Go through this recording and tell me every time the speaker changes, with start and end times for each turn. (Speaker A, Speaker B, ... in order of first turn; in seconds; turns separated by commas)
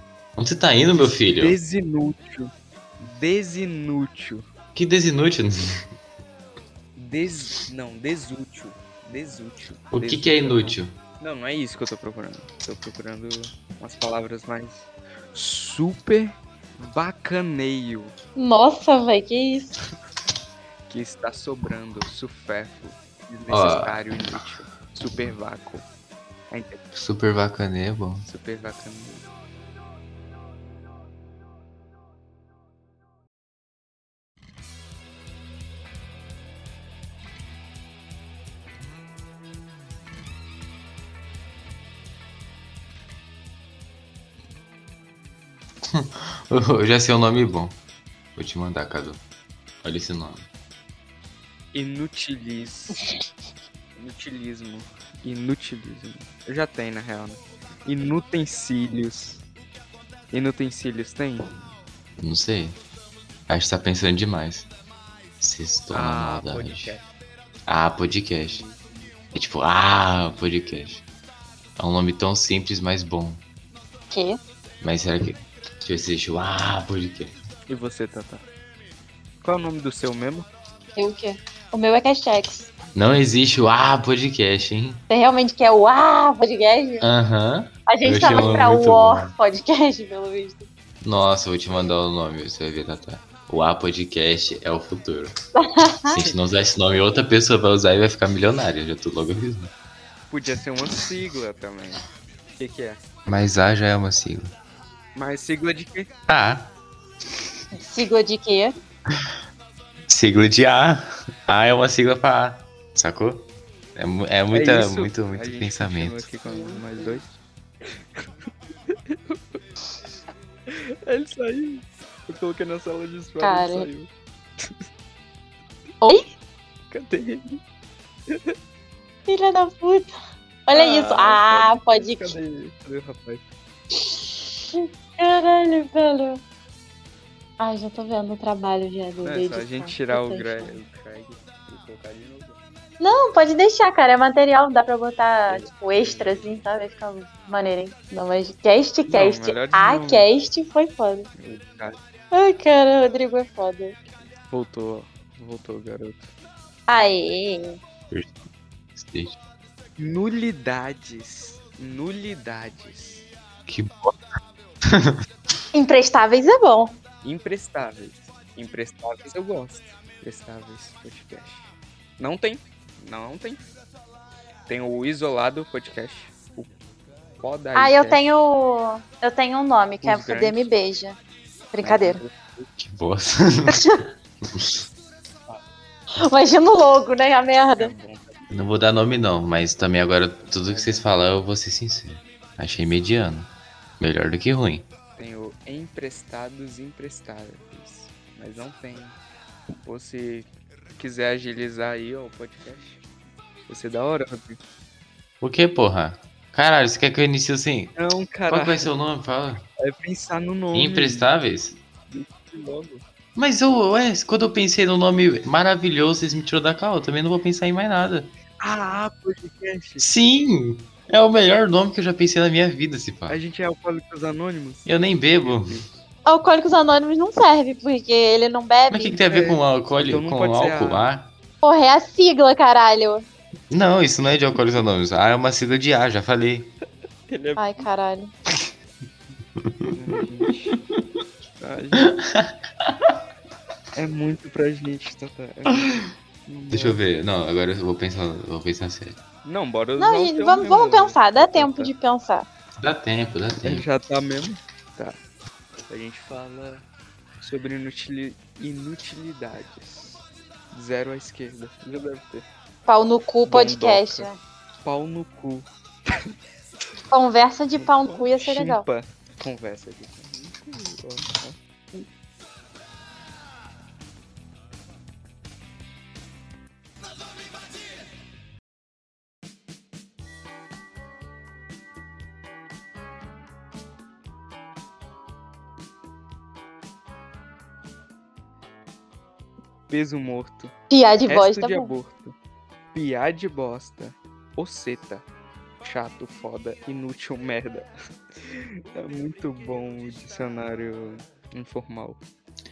Speaker A: 0.4-1.6, Speaker B: 1.4-4.5, Speaker A: 4.8-5.5, Speaker B: 7.0-18.1, Speaker A: 9.9-10.9, Speaker C: 18.4-19.8, Speaker B: 20.9-25.9, Speaker A: 23.5-24.0, Speaker B: 26.5-26.8, Speaker A: 26.9-28.2, Speaker B: 28.2-29.2, Speaker A: 45.9-47.8, Speaker A: 48.4-49.2, Speaker A: 49.8-50.5, Speaker B: 51.7-53.0, Speaker B: 54.0-59.4, Speaker B: 60.3-61.5, Speaker A: 62.2-62.8, Speaker A: 63.5-64.7, Speaker A: 65.4-67.0, Speaker B: 65.9-67.1, Speaker A: 67.7-68.6, Speaker B: 68.4-69.1, Speaker A: 69.3-71.0, Speaker A: 71.8-73.4, Speaker C: 74.1-74.4, Speaker A: 74.8-77.4, Speaker B: 77.7-78.4, Speaker B: 79.4-80.5, Speaker C: 81.0-82.7, Speaker A: 83.0-85.0, Speaker C: 85.1-87.1, Speaker A: 87.0-89.3, Speaker C: 87.9-90.7, Speaker A: 91.0-95.3, Speaker C: 95.6-96.2, Speaker A: 96.1-99.7, Speaker B: 100.3-102.1, Speaker B: 102.6-103.0, Speaker A: 103.3-104.5, Speaker B: 105.2-106.1, Speaker A: 106.3-106.7, Speaker C: 107.7-108.7, Speaker A: 110.1-116.3, Speaker B: 114.5-119.6, Speaker B: 120.7-124.8, Speaker C: 123.4-123.9, Speaker B: 126.9-127.6, Speaker B: 128.3-128.6, Speaker C: 129.3-130.1, Speaker C: 130.7-132.3, Speaker B: 130.7-133.4, Speaker C: 133.9-136.4, Speaker C: 137.6-140.8, Speaker B: 139.2-142.6, Speaker C: 143.0-151.3, Speaker B: 145.5-146.6, Speaker B: 149.1-150.3, Speaker B: 151.4-152.0, Speaker C: 152.3-154.0, Speaker B: 154.5-156.3, Speaker C: 156.9-157.8, Speaker A: 158.1-159.4, Speaker B: 160.0-163.2, Speaker A: 163.7-164.2, Speaker A: 164.9-165.2, Speaker C: 165.7-167.0, Speaker B: 167.2-173.6, Speaker B: 174.7-176.7, Speaker B: 177.4-178.3, Speaker C: 177.8-181.2, Speaker B: 180.0-180.6, Speaker C: 181.7-182.2, Speaker B: 181.8-182.7, Speaker A: 182.8-183.8, Speaker C: 183.7-184.0, Speaker C: 186.2-187.9, Speaker B: 187.7-188.5, Speaker A: 188.5-194.9, Speaker B: 190.7-191.1, Speaker B: 195.2-199.2, Speaker B: 199.8-203.0, Speaker B: 203.7-204.6, Speaker A: 205.4-209.7, Speaker B: 208.0-208.9, Speaker B: 209.8-211.3, Speaker A: 210.7-211.8, Speaker B: 212.1-213.0, Speaker A: 213.4-218.3, Speaker B: 218.6-220.1, Speaker A: 220.0-223.4, Speaker B: 223.3-226.0, Speaker A: 224.9-225.8, Speaker C: 226.3-229.2, Speaker A: 228.9-231.3, Speaker B: 229.3-231.1, Speaker C: 231.6-233.3, Speaker A: 233.7-236.7, Speaker B: 237.3-237.9, Speaker C: 237.6-238.3, Speaker A: 239.6-239.9, Speaker B: 239.9-240.8, Speaker B: 241.6-242.2, Speaker A: 242.0-242.9, Speaker B: 244.0-247.0, Speaker A: 246.7-249.2, Speaker B: 249.4-251.9, Speaker C: 250.0-252.5, Speaker A: 252.8-253.8, Speaker B: 253.6-255.2, Speaker B: 255.9-256.9, Speaker B: 257.4-260.2, Speaker B: 260.7-262.5, Speaker C: 262.9-264.4, Speaker B: 263.5-264.3, Speaker B: 264.8-266.3, Speaker C: 267.1-268.9, Speaker B: 267.8-271.6, Speaker B: 289.9-290.7, Speaker C: 290.9-291.9, Speaker B: 291.3-292.3, Speaker B: 292.9-295.2, Speaker B: 295.8-302.2